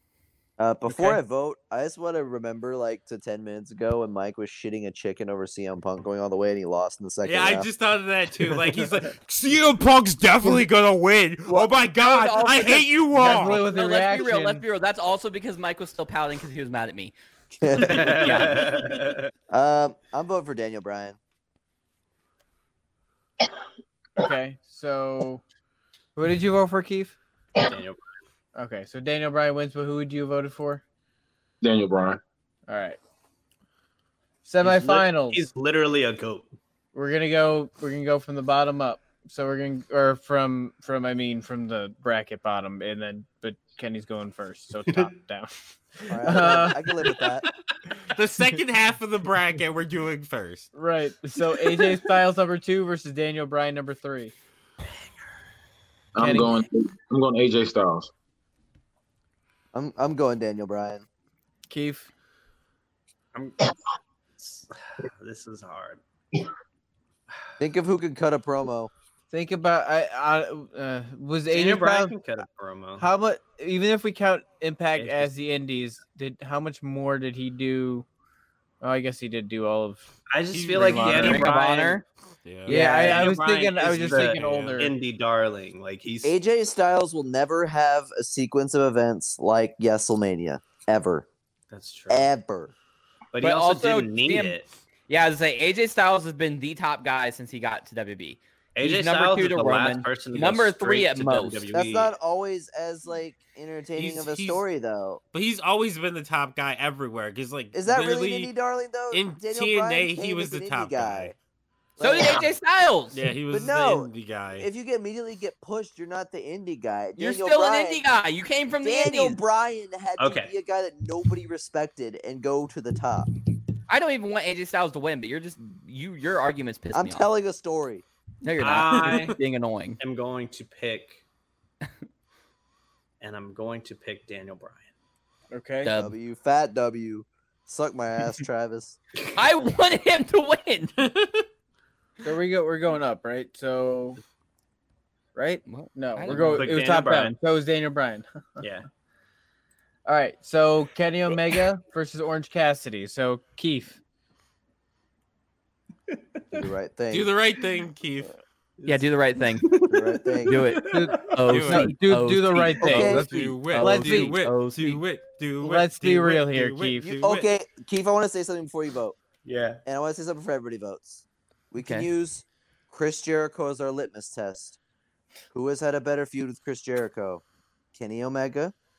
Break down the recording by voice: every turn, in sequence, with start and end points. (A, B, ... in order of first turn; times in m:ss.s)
0:00.6-0:07.7 A
0:00.9-0:01.2 B
0:07.2-0:13.6 C
0:11.5-0:17.2 D
0:13.1-0:14.6 B
0:17.6-0:18.6 A
0:17.7-0:18.8 D
0:17.8-0:19.2 E
0:19.5-0:21.2 A
0:24.2-0:25.4 B
0:26.2-0:27.2 B
0:27.6-0:28.0 E
0:28.6-0:30.8 B
0:31.6-0:32.2 F
0:32.7-0:33.0 B
0:34.4-0:35.5 B
0:34.6-0:36.5 E
0:36.9-0:46.8 B
0:46.1-0:47.5 A
0:48.1-0:50.7 C
0:50.7-0:54.3 B
0:56.2-0:58.1 F
0:56.2-0:56.7 B
0:59.7-1:01.0 A
1:01.7-1:02.1 B
1:03.3-1:03.7 E
1:04.4-1:06.0 E
1:07.6-1:08.9 A
1:09.3-1:12.2 B
1:11.5-1:13.0 E
1:13.0-1:18.1 B
1:15.0-1:15.3 E
1:18.8-1:20.1 B
1:20.3-1:22.0 E
1:20.5-1:21.5 C
1:20.7-1:21.6 B
1:21.1-1:22.0 D
1:22.4-1:23.3 C
1:22.7-1:24.9 B
1:22.7-1:26.4 E
1:24.0-1:24.8 C
1:26.2-1:31.3 A
1:31.7-1:32.3 E
1:32.1-1:32.7 A
1:33.3-1:34.7 E
1:33.4-1:34.6 D
1:35.1-1:41.7 D
1:38.8-1:42.1 E
1:41.7-1:45.2 A
1:44.0-1:44.6 C
1:45.3-1:48.5 C
1:47.7-1:51.4 A
1:49.1-1:51.3 C
1:52.0-1:52.5 A
1:52.0-1:53.2 D
1:53.1-1:54.7 C
1:53.5-1:58.0 A
1:57.2-1:59.4 D
1:58.8-2:03.3 A
2:00.2-2:00.5 E
2:03.9-2:07.3 D
2:06.9-2:08.0 A
2:08.4-2:10.0 D
2:08.6-2:09.4 E
2:10.0-2:11.2 E
2:13.2-2:14.9 E
2:15.5-2:15.9 B
2:15.8-2:16.1 D
2:15.9-2:19.0 A
2:19.4-2:20.9 D
2:21.0-2:21.4 C
2:22.2-2:24.2 B
2:25.4-2:28.3 B
2:25.7-2:26.7 D
2:26.3-2:27.4 E
2:28.6-2:28.9 E
2:30.1-2:34.0 B
2:36.5-2:37.3 A
2:37.1-2:38.3 C
2:38.8-2:39.0 E
2:38.9-2:39.7 D
2:39.6-2:41.4 E
2:39.9-2:40.6 A
2:40.5-2:45.0 D
2:40.9-2:44.5 B
2:41.4-2:42.0 C
2:42.8-2:43.3 A
2:42.9-2:47.5 C
2:45.6-2:47.2 B
2:47.1-2:49.2 A
2:49.4-2:49.8 E
2:49.8-2:54.8 A
2:51.8-2:52.1 D
2:55.5-2:57.4 A
2:57.9-2:58.8 A